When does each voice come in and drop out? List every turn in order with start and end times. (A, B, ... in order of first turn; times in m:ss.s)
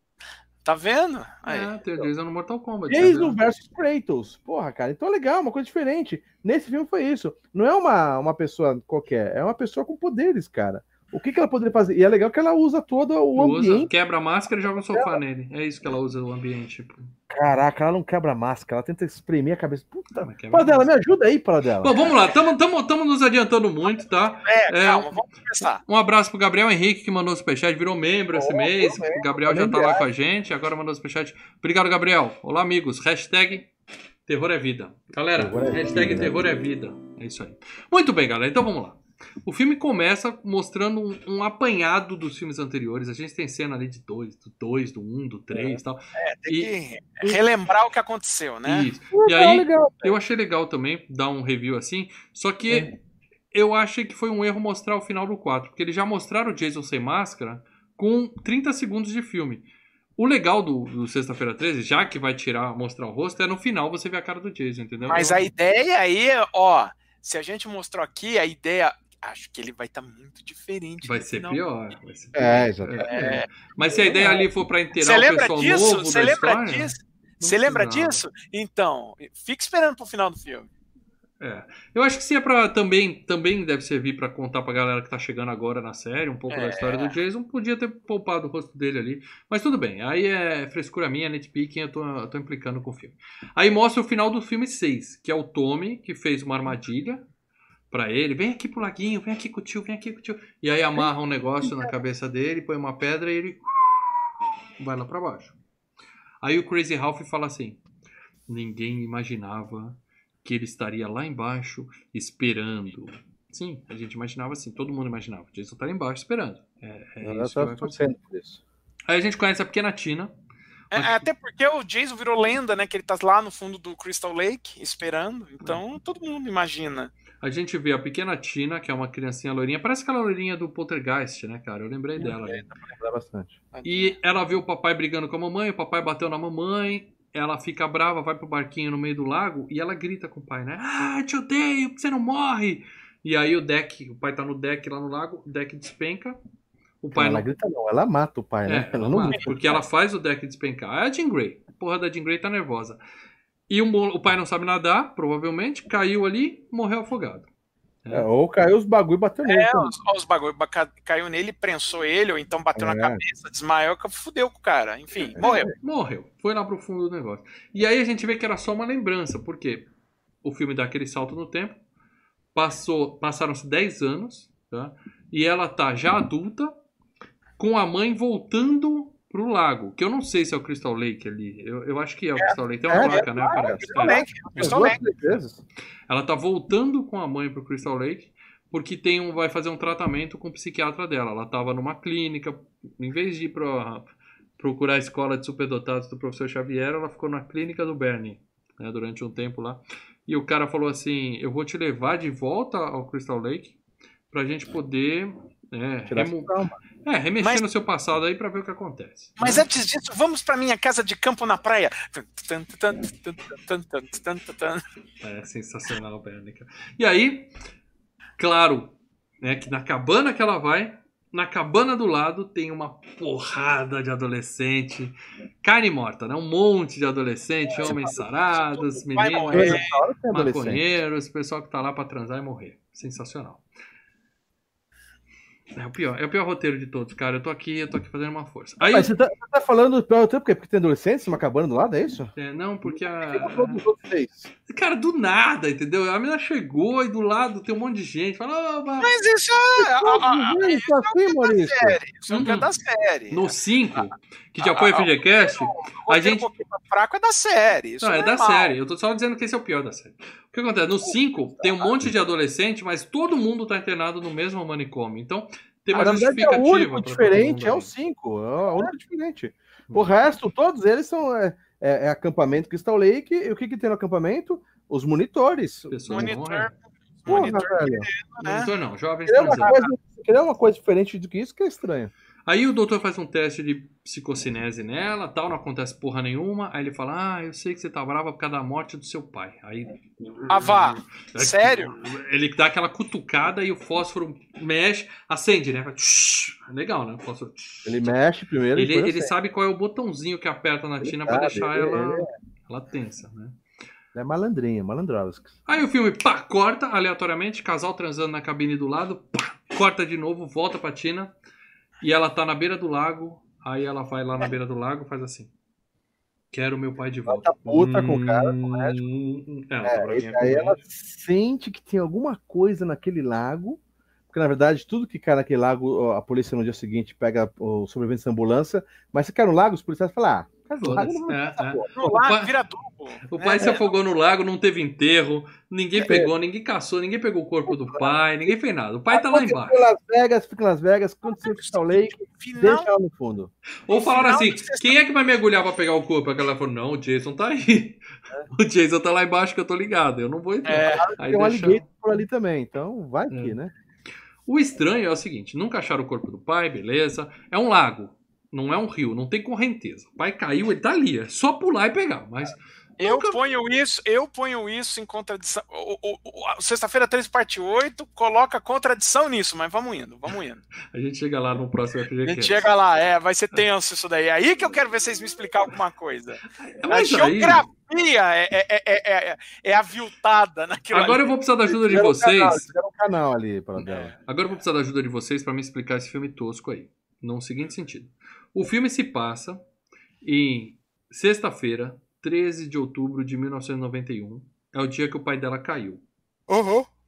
0:00.6-0:01.7 A
0:01.5-0:03.4 B
0:02.9-0:13.9 C
0:13.3-0:17.1 B
0:14.9-0:15.2 C
0:17.3-0:21.9 C
0:20.2-0:20.9 B
0:21.8-0:25.2 B
0:23.9-0:25.8 A
0:25.9-0:33.7 B
0:28.3-0:30.0 C
0:34.3-0:46.7 B
0:35.4-0:36.3 C
0:45.5-0:45.8 C
0:46.2-0:48.9 A
0:48.6-0:52.9 B
0:49.1-0:50.1 C
0:53.5-0:59.6 B
1:00.2-1:05.5 B
1:05.1-1:11.6 A
1:11.0-1:18.2 B
1:12.3-1:13.4 C
1:13.0-1:13.5 A
1:13.9-1:14.4 C
1:15.0-1:20.7 A
1:21.4-1:37.2 B
1:26.5-1:27.1 A
1:37.9-1:44.1 B
1:41.6-1:41.9 C
1:44.8-1:45.6 B
1:46.4-1:47.8 B
1:48.5-1:58.0 B
1:57.2-1:58.6 C
1:59.1-2:00.3 B
2:00.9-2:07.1 A
2:00.9-2:01.3 B
2:07.4-2:12.7 B
2:12.2-2:13.6 C
2:13.7-2:14.1 A
2:13.8-2:26.4 B
2:27.0-2:27.5 B
2:27.1-2:29.6 C
2:28.7-2:33.0 B
2:33.7-2:37.5 B
2:38.1-2:39.9 C
2:39.4-2:45.7 A
2:42.8-2:43.2 C
2:45.4-2:45.7 C
2:45.8-2:49.8 B
2:50.4-2:51.8 B
2:52.5-2:56.7 B
2:57.6-3:05.4 B
3:02.4-3:05.0 A
3:02.9-3:05.6 C
3:06.1-3:14.0 B
3:14.6-3:23.7 B
3:24.3-3:26.5 B
3:26.1-3:26.8 C
3:27.0-3:29.6 B
3:29.4-3:34.8 A
3:35.2-3:37.5 B
3:38.4-3:53.6 B
3:47.8-3:48.2 C
3:49.1-3:49.9 A
3:49.5-3:50.8 C
3:55.7-3:59.1 B
3:58.8-4:02.3 C
4:02.4-4:03.8 B
4:02.9-4:04.5 C
4:04.7-4:09.1 B
4:09.0-4:13.5 A
4:09.8-4:12.0 C
4:12.3-4:12.7 B
4:13.3-4:16.5 B
4:14.6-4:18.7 A
4:18.0-4:27.9 B
4:25.9-4:36.3 C
4:35.9-4:36.7 B
4:36.1-4:38.7 A
4:37.3-4:38.1 C
4:38.4-4:39.8 B
4:39.3-4:42.1 C
4:42.4-4:58.1 B
4:50.5-4:51.9 A
4:57.8-4:59.3 C
4:58.8-5:03.6 B
5:01.0-5:02.3 C
5:04.1-5:05.5 C
5:05.6-5:11.3 B
5:12.0-5:15.5 B
5:16.5-5:20.8 B
5:17.3-5:19.0 C
5:19.8-5:23.8 C
5:24.3-5:31.9 C
5:30.8-5:32.5 B
5:32.0-5:33.9 A
5:33.3-5:39.8 B
5:36.0-5:36.3 C
5:37.7-5:38.1 C
5:39.1-5:43.5 C
5:41.4-5:42.9 A
5:43.9-5:51.8 B
5:43.9-5:45.0 A
5:50.6-5:51.0 A
5:51.0-5:53.7 C
5:53.3-5:53.6 B
5:54.5-6:03.4 B
6:03.0-6:10.6 A
6:10.9-6:12.7 B
6:12.2-6:21.3 A
6:16.8-6:17.6 B
6:20.9-6:22.6 B
6:21.7-6:24.1 C
6:23.8-6:24.1 A
6:24.2-6:29.6 B
6:30.2-6:36.0 B
6:36.5-6:36.9 A